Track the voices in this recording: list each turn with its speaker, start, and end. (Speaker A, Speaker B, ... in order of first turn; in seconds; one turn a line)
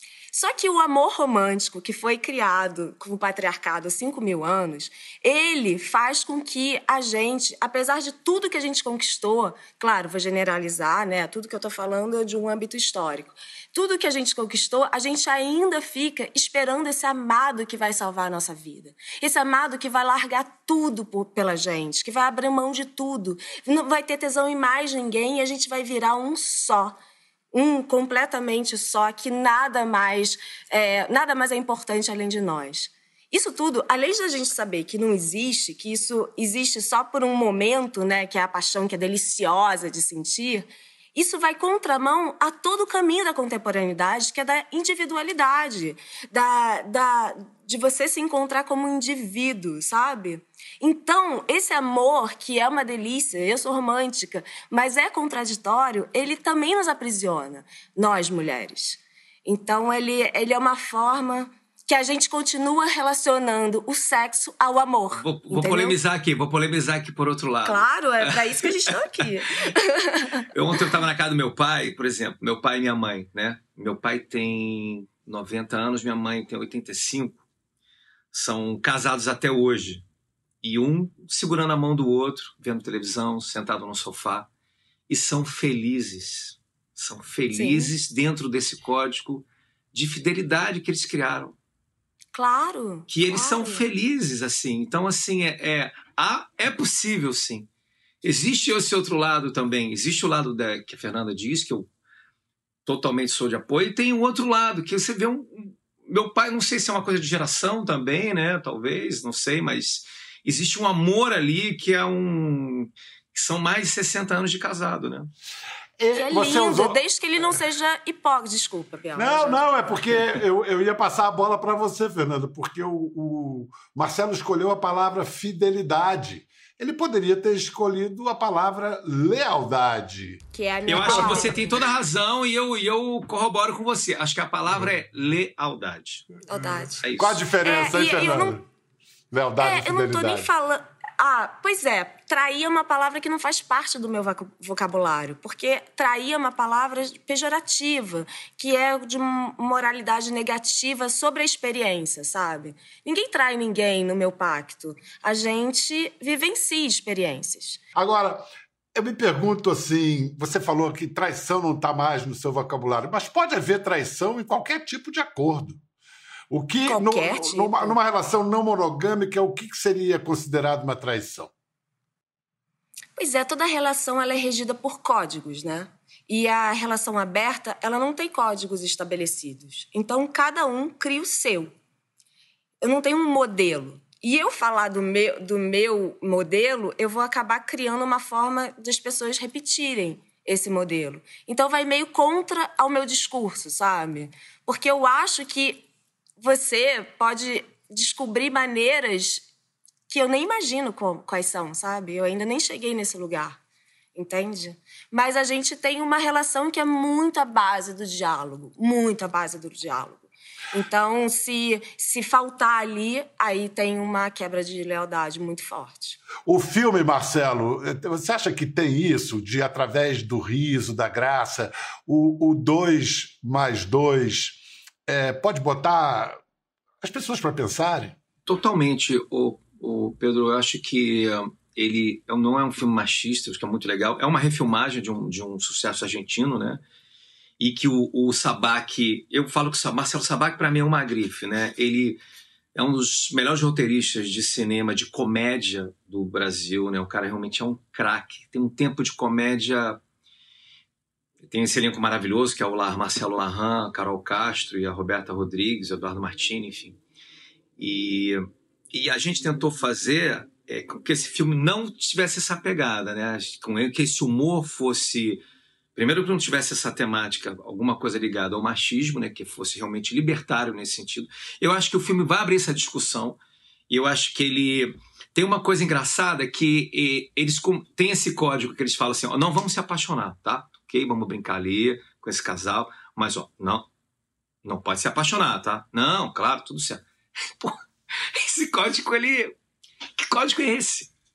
Speaker A: 0.3-26.9
Speaker A: 27.5-66.0
Speaker B: 65.1-68.7
Speaker A: 67.6-70.4
Speaker B: 70.5-77.4
Speaker B: 78.3-80.0
Speaker B: 80.6-84.5
Speaker B: 85.1-91.5
Speaker A: 87.5-87.9
Speaker A: 92.3-93.8
Speaker B: 93.1-97.7
Speaker B: 98.2-101.9
Speaker B: 102.8-115.3
Speaker C: 116.0-117.0
Speaker A: 116.1-119.9
Speaker C: 119.1-130.4
Speaker A: 130.5-131.6
Speaker B: 130.9-136.3
Speaker C: 131.0-131.5
Speaker A: 136.5-137.0
Speaker B: 137.0-137.4
Speaker C: 137.0-138.6
Speaker A: 137.6-138.6
Speaker C: 139.3-140.5
Speaker A: 139.6-157.8
Speaker C: 157.9-165.8
Speaker C: 166.5-171.5
Speaker A: 166.9-168.0
Speaker A: 173.2-181.7
Speaker A: 182.8-195.8
Speaker A: 196.4-199.4
Speaker A: 200.1-203.6
Speaker A: 204.1-216.2
Speaker C: 216.4-226.4
Speaker C: 227.0-228.2
Speaker B: 228.4-236.8
Speaker B: 237.6-242.2
Speaker B: 242.7-250.0
Speaker B: 251.5-257.0
Speaker B: 257.8-265.4
Speaker B: 265.9-283.9
Speaker B: 284.6-287.8
Speaker B: 288.3-289.5
Speaker B: 290.2-291.1